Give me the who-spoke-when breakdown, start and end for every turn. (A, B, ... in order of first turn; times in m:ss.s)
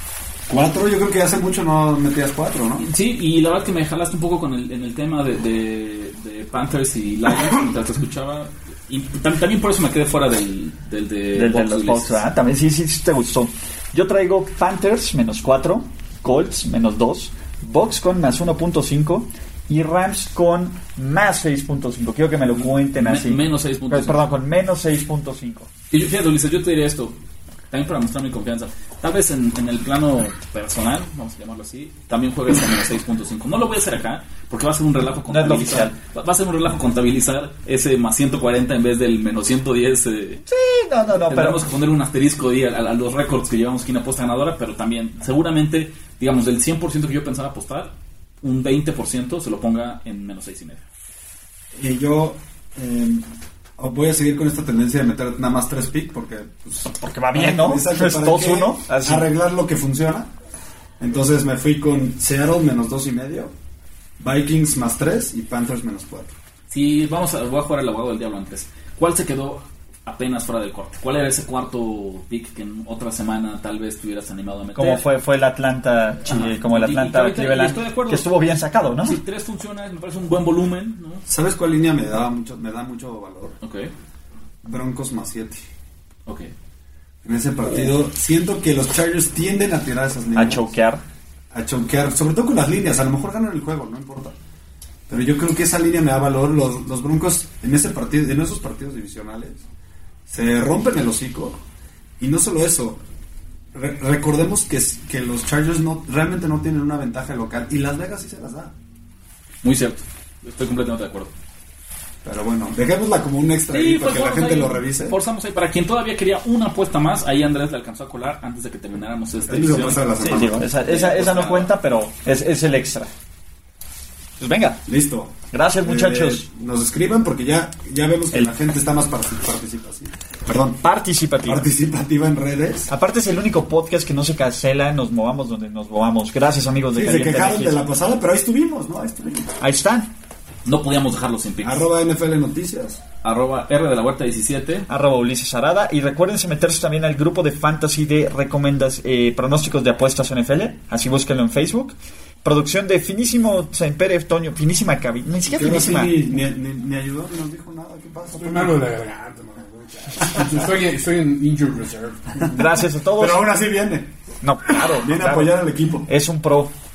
0:00.5-0:02.8 A
0:02.8-0:12.2 B
0:11.3-0:25.7 C
0:22.5-0:24.3 B
0:25.9-0:27.2 B
0:27.7-0:40.4 B
0:35.3-0:36.0 C
0:40.5-0:41.6 C
0:41.3-0:50.8 B
0:51.7-1:00.3 A
0:57.0-0:59.3 C
1:01.0-1:03.5 A
1:04.2-1:06.3 A
1:06.7-1:15.0 B
1:14.8-1:19.2 C
1:16.3-1:18.3 B
1:19.0-1:21.2 B
1:21.3-1:23.6 A
1:23.6-1:23.9 B
1:24.6-1:25.6 A
1:26.2-1:26.5 B
1:27.2-1:30.7 A
1:30.3-1:31.0 C
1:31.5-1:34.4 A
1:35.1-1:39.6 A
1:40.3-1:41.6 A
1:42.2-1:43.0 A
1:43.7-1:48.7 A
1:49.6-1:51.3 B
1:52.2-1:55.2 A
1:53.7-2:00.0 B
1:59.4-2:00.7 A
2:00.2-2:03.1 C
2:00.8-2:01.7 B
2:04.4-2:04.8 C
2:04.8-2:10.8 A
2:05.5-2:06.4 C
2:10.8-2:11.6 C
2:11.4-2:12.9 A
2:12.9-2:17.8 C
2:16.9-2:19.5 A
2:19.6-2:20.1 C
2:20.6-2:21.9 B
2:21.6-2:23.0 A
2:23.2-2:24.9 B
2:24.9-2:36.2 C
2:35.4-2:38.9 A
2:38.3-2:42.5 D
2:40.1-2:40.7 A
2:42.5-2:43.4 C
2:43.1-2:44.1 A
2:44.4-2:46.7 C
2:44.8-2:46.1 A